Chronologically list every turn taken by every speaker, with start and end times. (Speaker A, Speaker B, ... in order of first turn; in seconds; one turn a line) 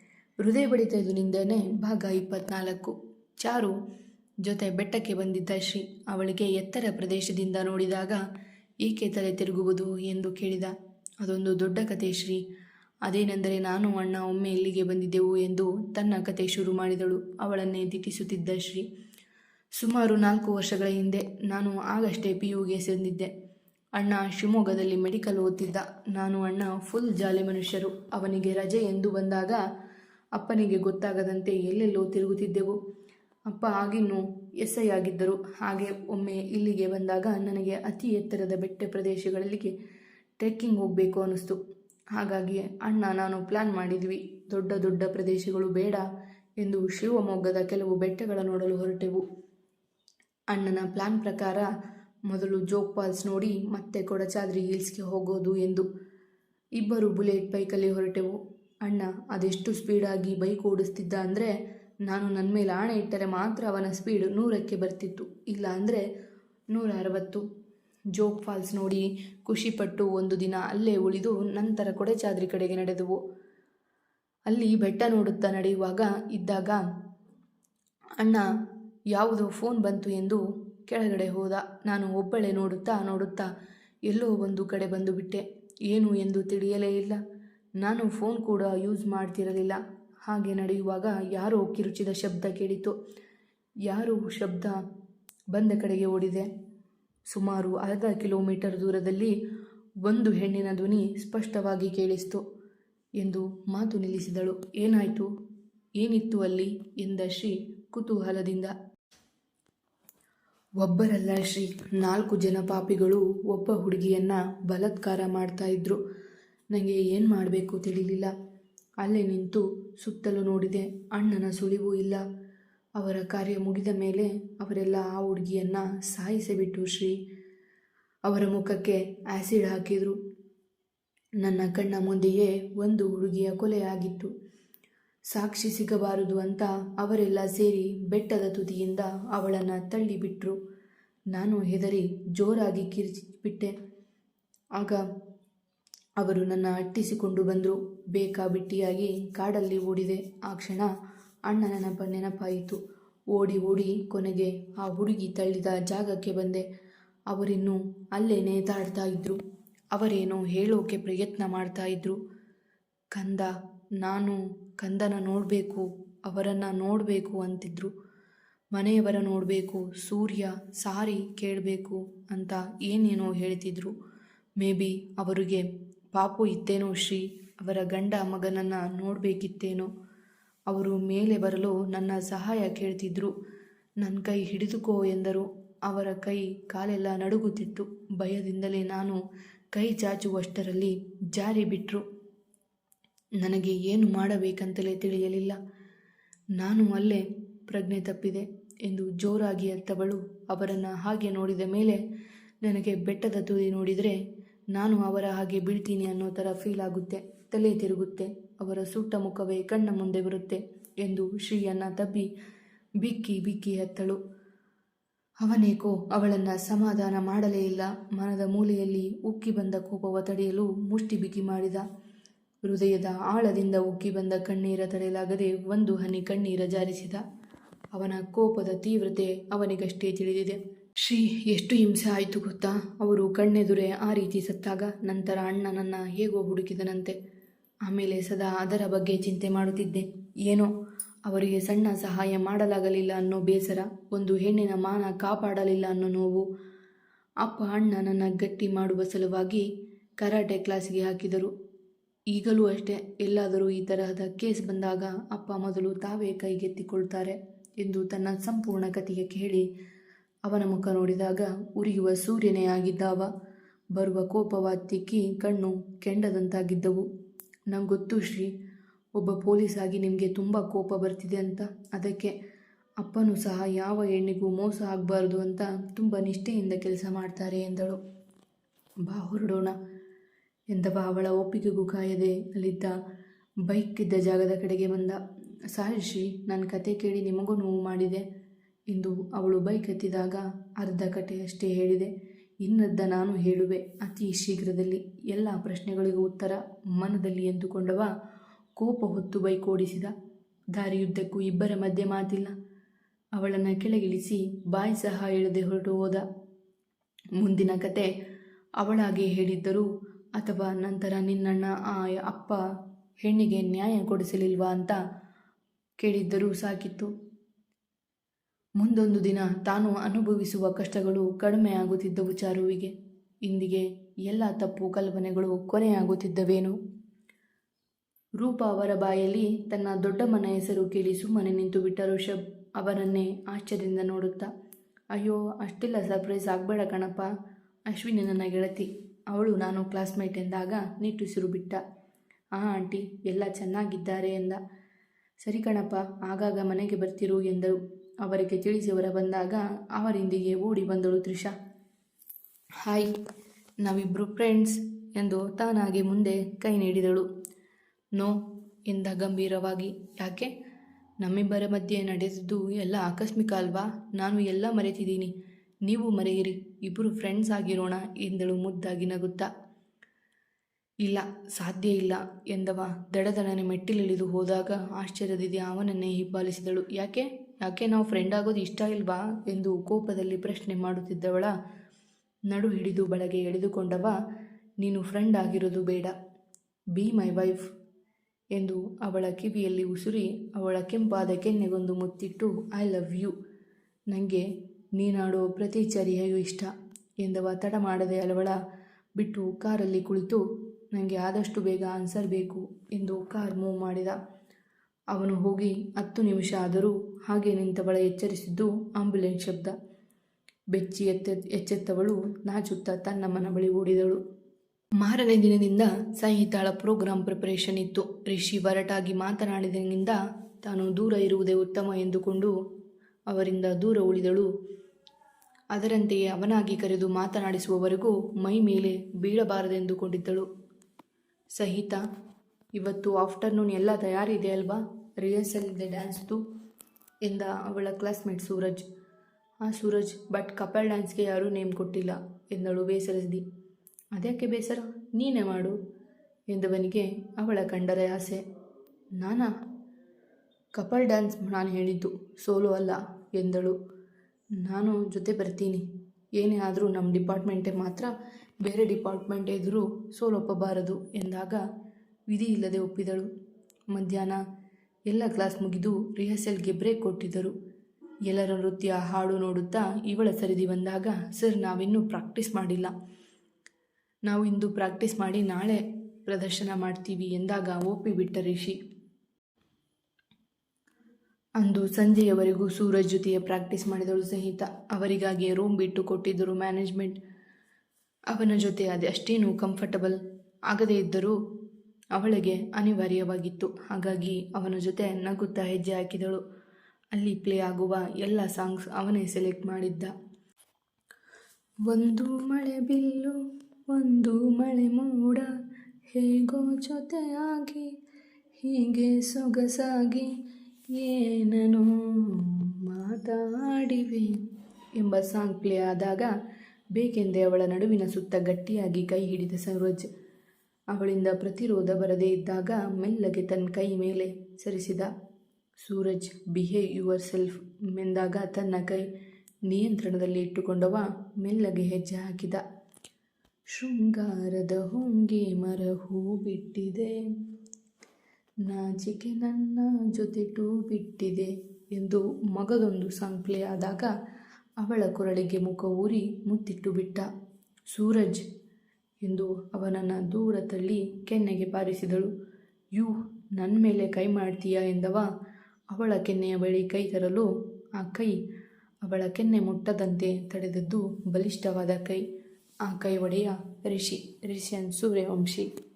Speaker A: 0.4-3.7
Speaker A: 4.4-8.2
Speaker A: 8.8-12.4
Speaker A: 13.1-18.8
Speaker A: 19.8-23.3
Speaker A: 24.0-29.6
Speaker A: 30.4-32.8
Speaker A: 33.5-39.7
Speaker A: 40.4-41.6
Speaker A: 42.1-46.0
Speaker A: 46.6-49.2
Speaker A: 50.5-51.7
Speaker A: 52.3-55.9
Speaker A: 56.8-61.5
Speaker A: 62.1-66.0
Speaker A: 66.7-67.4
Speaker A: 68.1-73.2
Speaker A: 74.5-76.8
Speaker A: 78.2-78.4
Speaker A: 79.1-83.5
Speaker A: 84.1-87.2
Speaker A: 87.8-92.9
Speaker A: 93.9-94.7
Speaker A: 95.5-96.5
Speaker A: 97.3-99.3
Speaker A: 100.0-102.4
Speaker A: 103.2-105.3
Speaker A: 106.0-108.7
Speaker A: 110.8-116.0
Speaker A: 116.7-118.3
Speaker A: 119.0-122.2
Speaker A: 123.0-127.2
Speaker A: 128.3-130.2
Speaker A: 131.4-134.3
Speaker A: 135.3-140.6
Speaker A: 141.3-143.7
Speaker A: 146.2-150.9
Speaker A: 151.5-152.8
Speaker A: 153.3-156.6
Speaker A: 157.3-159.4
Speaker A: 159.9-162.2
Speaker A: 163.1-167.9
Speaker A: 168.7-173.9
Speaker A: 174.6-179.9
Speaker A: 180.7-183.3
Speaker A: 184.0-189.2
Speaker A: 189.7-192.0
Speaker A: 193.4-195.6
Speaker A: 196.6-202.0
Speaker A: 202.6-204.2
Speaker A: 204.7-212.3
Speaker A: 213.0-214.2
Speaker A: 215.4-221.8
Speaker A: 222.6-227.2
Speaker A: 227.9-237.2
Speaker A: 237.8-240.7
Speaker A: 241.3-246.4
Speaker A: 247.4-249.6
Speaker A: 250.2-251.5
Speaker A: 252.3-259.6
Speaker A: 260.5-263.3
Speaker A: 263.9-267.0
Speaker A: 267.7-268.5
Speaker A: 269.2-272.3
Speaker A: 273.0-278.0
Speaker A: 279.1-279.8
Speaker A: 280.7-282.9
Speaker A: 283.7-285.2
Speaker A: 285.7-288.2
Speaker A: 288.9-292.1
Speaker A: 292.6-298.1
Speaker A: 298.8-300.1
Speaker A: 300.7-302.5
Speaker A: 303.4-306.2
Speaker A: 307.4-308.1
Speaker A: 308.8-312.6
Speaker A: 313.2-315.0
Speaker A: 316.0-317.1
Speaker A: 318.8-322.9
Speaker A: 323.4-326.7
Speaker A: 328.4-334.5
Speaker A: 335.1-337.3
Speaker A: 337.9-341.8
Speaker A: 342.6-344.6
Speaker A: 345.4-351.5
Speaker A: 352.8-353.1
Speaker A: 353.8-357.2
Speaker A: 358.9-360.5
Speaker A: 361.2-365.3
Speaker A: 365.8-369.5
Speaker A: 371.0-381.5
Speaker A: 382.5-384.1
Speaker A: 384.8-386.1
Speaker A: 386.9-387.6
Speaker A: 388.6-393.3
Speaker A: 394.1-396.7
Speaker A: 397.2-398.6
Speaker A: 399.2-404.1
Speaker A: 405.1-409.7
Speaker A: 410.7-414.2
Speaker A: 415.0-422.5
Speaker A: 423.3-424.5
Speaker A: 425.7-430.5
Speaker A: 431.6-432.0
Speaker A: 432.8-436.4
Speaker A: 437.2-438.8
Speaker A: 439.6-443.4
Speaker A: 444.1-445.8
Speaker A: 446.5-448.4
Speaker A: 449.2-449.5
Speaker A: 450.8-453.7
Speaker A: 454.6-455.8
Speaker A: 456.4-458.1
Speaker A: 458.6-461.6
Speaker A: 462.3-463.3
Speaker A: 463.9-464.4
Speaker A: 465.1-467.5
Speaker A: 468.2-472.9
Speaker A: 474.3-478.8
Speaker A: 481.6-487.2
Speaker A: 488.3-491.4
Speaker A: 492.1-496.4
Speaker A: 497.1-500.1
Speaker A: 501.9-505.5
Speaker A: 506.1-507.9
Speaker A: 508.6-510.3
Speaker A: 510.9-514.5
Speaker A: 515.0-516.3
Speaker A: 516.9-520.0
Speaker A: 520.9-525.1
Speaker A: 525.8-529.1
Speaker A: 529.7-532.6
Speaker A: 533.7-537.2
Speaker A: 538.6-544.1
Speaker A: 544.8-547.3
Speaker A: 547.9-548.4
Speaker A: 549.2-552.3
Speaker A: 552.9-555.3
Speaker A: 555.9-558.4
Speaker A: 559.0-562.2
Speaker A: 562.9-565.7